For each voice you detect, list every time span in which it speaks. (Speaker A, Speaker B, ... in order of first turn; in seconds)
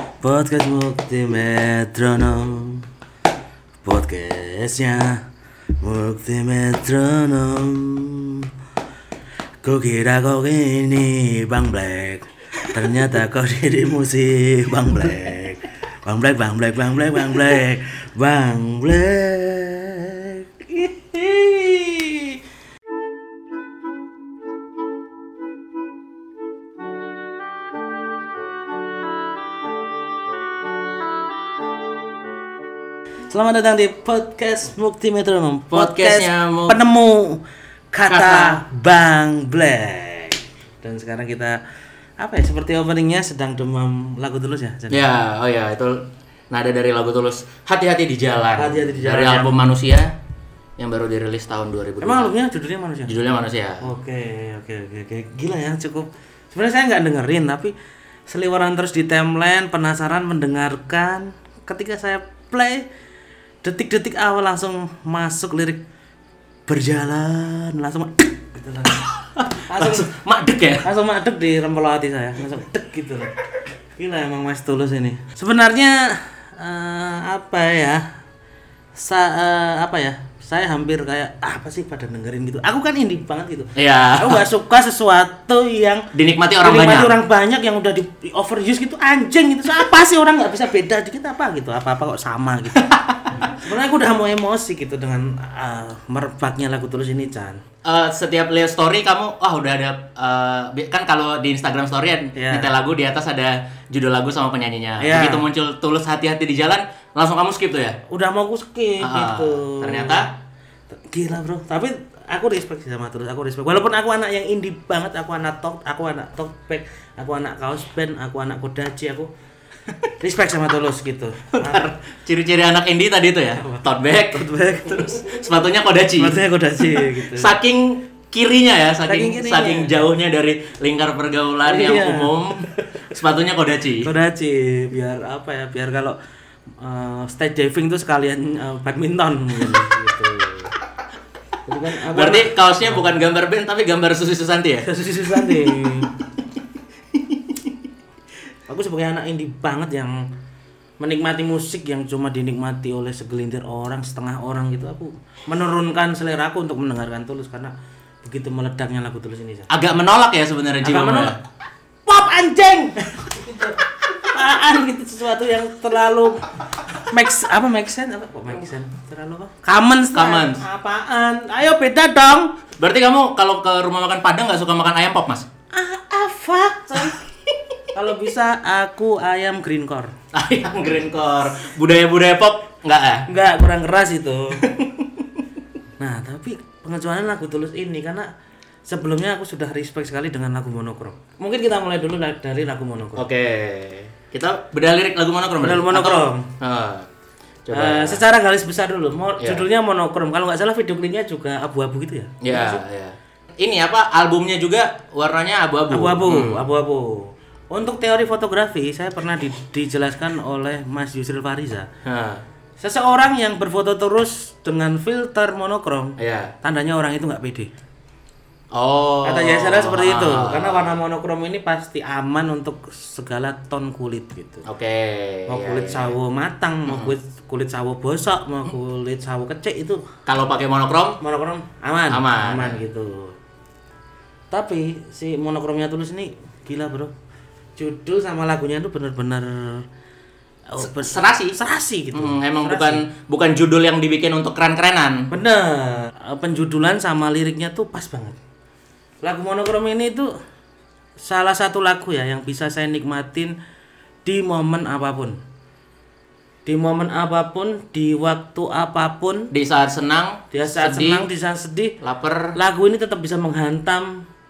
Speaker A: 0.2-2.9, 3.9-5.2, 5.8-8.5, 9.6-22.4, 33.3-37.4, 37.9-41.6, 42.2-45.1, 48.6-49.7, 52.0-53.1, 53.8-57.7, 58.3-62.8, 63.6-65.8, 66.7-69.0, 69.7-70.1, 70.8-73.3, 74.0-78.0, 79.0-86.1, 86.6-92.9, 93.5-97.6, 102.4-102.7, 105.0-105.4, 108.1-110.2, 110.9-119.3, 120.2-121.9, 123.6-125.4, 126.2-127.5, 129.1-129.9, 131.7-132.8, 134.0-136.2, 136.8-140.7, 141.7-143.1, 144.8-146.1, 148.7-150.2, 151.0-159.7, 160.8-161.4, 162.1-172.6, 175.7-177.2, 177.9-180.1, 183.3-184.6, 186.0-188.3, 188.9-193.2, 195.6-196.5, 197.7-202.8, 205.9-211.9, 212.8-217.7, 219.2-224.7, 225.5-230.0, 231.2-233.4, 234.5-237.1, 237.8-239.8, 240.7-243.0, 245.3-248.4, 249.2-250.3, 251.2-253.5, 254.2-255.4, 256.6-259.5, 260.5-262.0, 262.5-264.2
Speaker B: 35.7-36.8, 38.1-38.6, 44.9-50.1, 50.8-52.3, 53.0-53.8, 69.2-70.9, 83.8-84.4, 86.1-87.2, 92.8-93.3, 97.8-108.0, 109.0-110.3, 121.5-134.1, 142.1-144.9, 147.2-147.6, 159.7-161.4, 170.1-170.6, 172.8-175.5, 180.3-183.3, 184.6-185.2, 193.2-197.1, 197.7-198.2, 199.4-199.6, 202.4-206.6, 212.1-212.4, 216.2-216.5, 218.7-221.0, 224.7-226.1, 226.9-227.2, 230.3-231.2, 232.1-232.8, 240.8-241.6, 242.1-245.3, 259.5-261.3, 262.0-262.6